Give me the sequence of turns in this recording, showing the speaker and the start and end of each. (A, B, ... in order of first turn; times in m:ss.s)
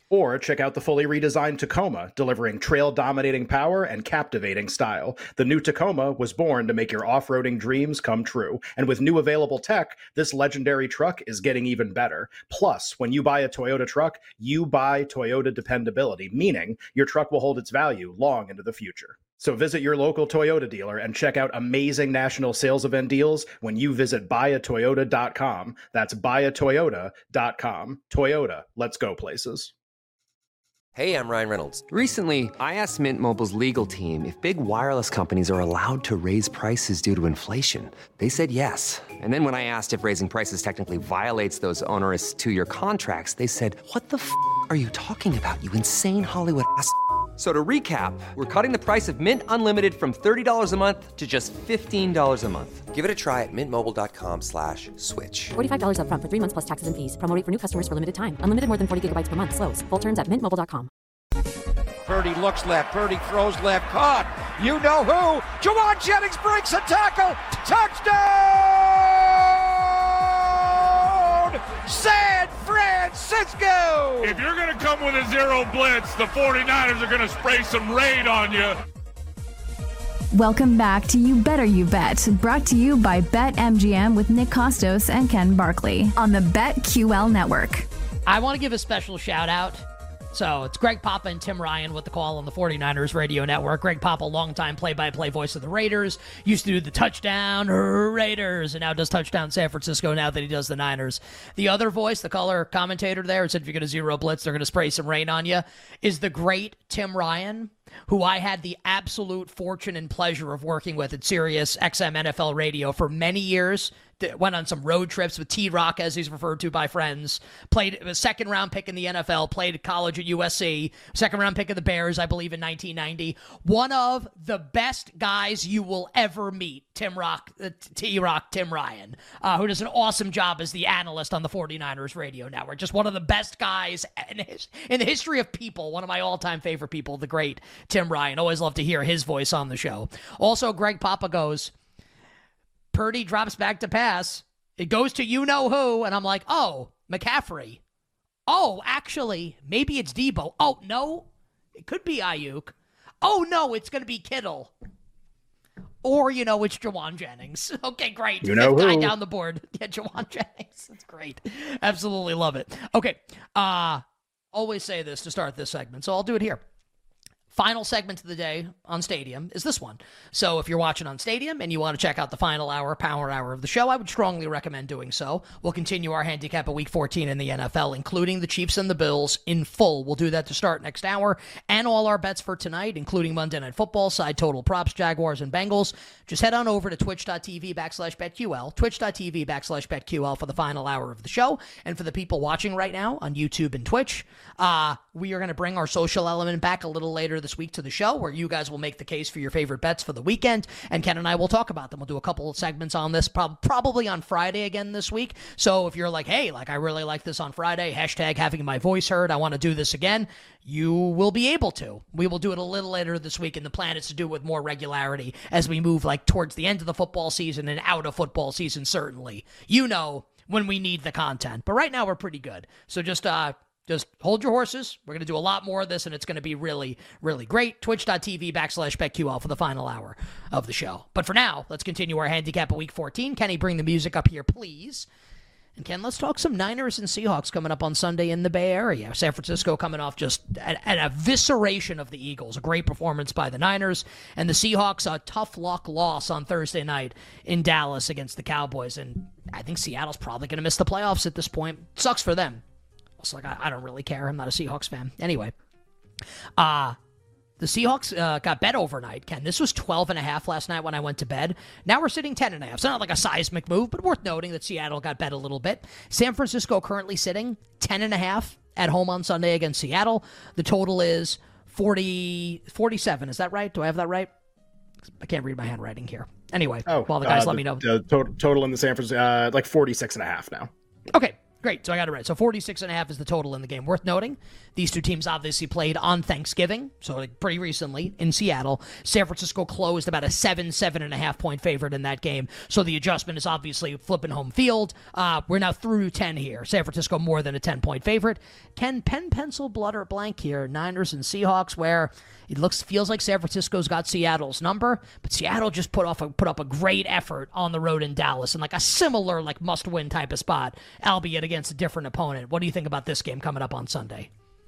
0:00.1-0:29.7 A
0:31.0-0:31.8 B
0:31.8-0:55.6 C
0:53.0-0:54.9 B
0:55.6-1:00.9 D
1:02.1-1:14.4 E
1:14.2-1:18.8 F
1:20.3-1:27.9 G
1:28.3-2:21.7 H
2:22.9-2:27.8 H
2:28.5-2:31.2 H
2:31.8-2:34.7 H
2:36.0-2:44.0 H
2:38.4-2:39.1 A
2:44.5-2:46.6 H
2:47.5-3:55.1 H
3:55.8-4:12.6 H
4:13.2-4:15.5 H
4:16.6-4:17.0 H
4:17.6-4:34.3 H
4:35.2-4:37.8 H
4:36.9-4:40.7 A
4:41.1-5:14.3 H